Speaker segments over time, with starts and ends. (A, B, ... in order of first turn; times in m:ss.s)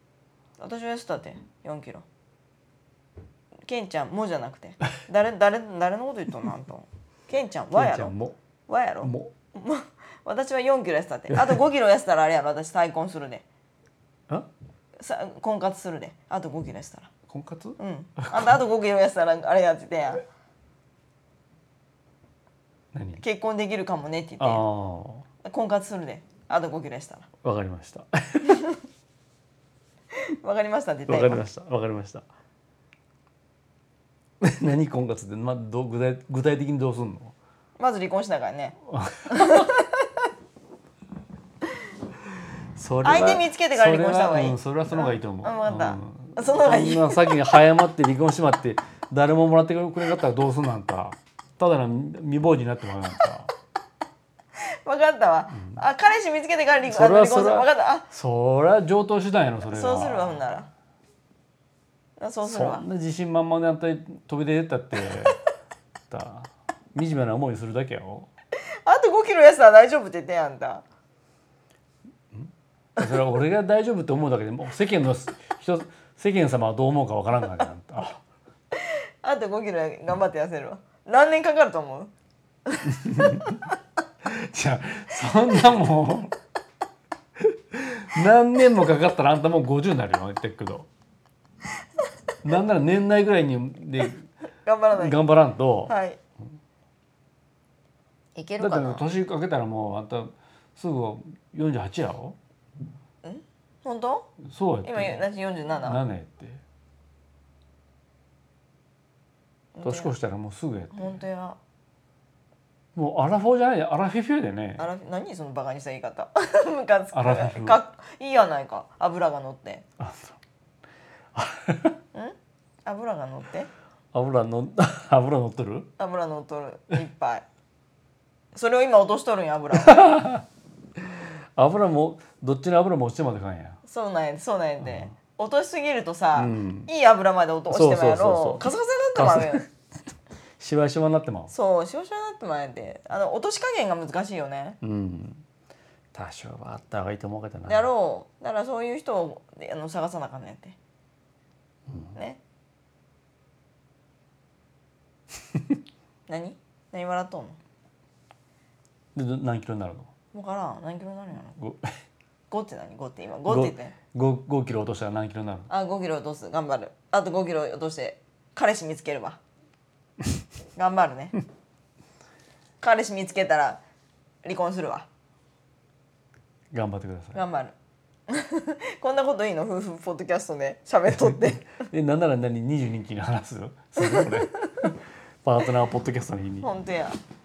0:00.6-0:02.0 A
0:03.6-0:08.2 A
0:07.7-0:08.4 B
0:08.7-0:13.4 A
0:09.0-0:09.3 B
0:11.3-0:11.6 B
0:15.0-0:17.1 A
0:17.3-0:18.5 B
0:17.8-0:20.2 A
0:22.9-0:23.2 B
0:23.2-0:24.6 A
0:24.4-0:25.2 B
0:25.4-0:27.3 A
0:27.4-0:28.6 B
0:30.3-0:31.4 A
0:31.1-0:32.2 B
0:34.4-0:37.4 B
0:37.8-0:38.8 A
0:38.9-0:39.6 B
0:39.3-0:40.2 A
0:42.8-0:53.5 B
0:43.0-0:47.4 A
0:54.6-0:58.1 A
0:56.9-1:00.5 B
0:59.7-1:00.7 A
1:02.2-1:02.8 A
1:02.4-1:05.4 B
1:06.1-1:08.3 B
1:08.8-1:10.8 A
1:12.3-1:18.2 B
1:18.8-1:22.1 A
1:22.7-1:23.1 A
1:22.9-1:23.6 B
1:24.2-1:26.4 B
1:27.4-1:30.9 B
1:32.4-1:34.3 B
1:34.6-1:35.2 A
1:35.0-1:35.9 B
1:35.9-1:36.2 A
1:38.4-1:39.0 A
1:38.6-1:42.4 B
1:43.2-1:44.3 A
1:44.4-1:45.2 B
1:44.8-1:46.0 A
1:45.8-1:46.6 B
1:49.8-1:50.1 A
1:49.8-1:51.1 B
1:50.9-1:51.6 A
1:53.0-1:54.9 B
1:54.8-1:59.8 A
1:57.1-1:57.8 B
2:00.0-2:00.4 B
2:01.4-2:02.0 B
2:02.1-2:03.7 A
2:04.1-2:05.9 B
2:06.0-2:07.4 A
2:08.5-2:10.1 A
2:09.7-2:10.4 B
2:11.6-2:13.8 B
2:13.8-2:19.6 A
2:16.4-2:16.9 B
2:17.7-2:19.7 B
2:20.6-2:21.5 B
2:21.5-2:24.8 A
2:24.8-2:25.4 B
2:26.1-2:27.9 B
2:27.7-2:30.8 A
2:32.1-2:32.4 A
2:36.3-2:37.6 A
2:39.2-2:40.1 B
2:40.3-2:41.6 A
2:41.6-2:42.0 B
2:42.5-2:44.0 A
2:43.5-2:45.7 B
2:45.7-2:49.4 A
2:50.8-2:51.4 A
2:52.8-2:53.8 A
2:54.4-2:55.1 A
2:56.7-2:57.4 B
2:57.3-2:57.8 A
2:58.3-3:01.8 A
3:01.1-3:06.7 B
3:06.6-3:07.2 A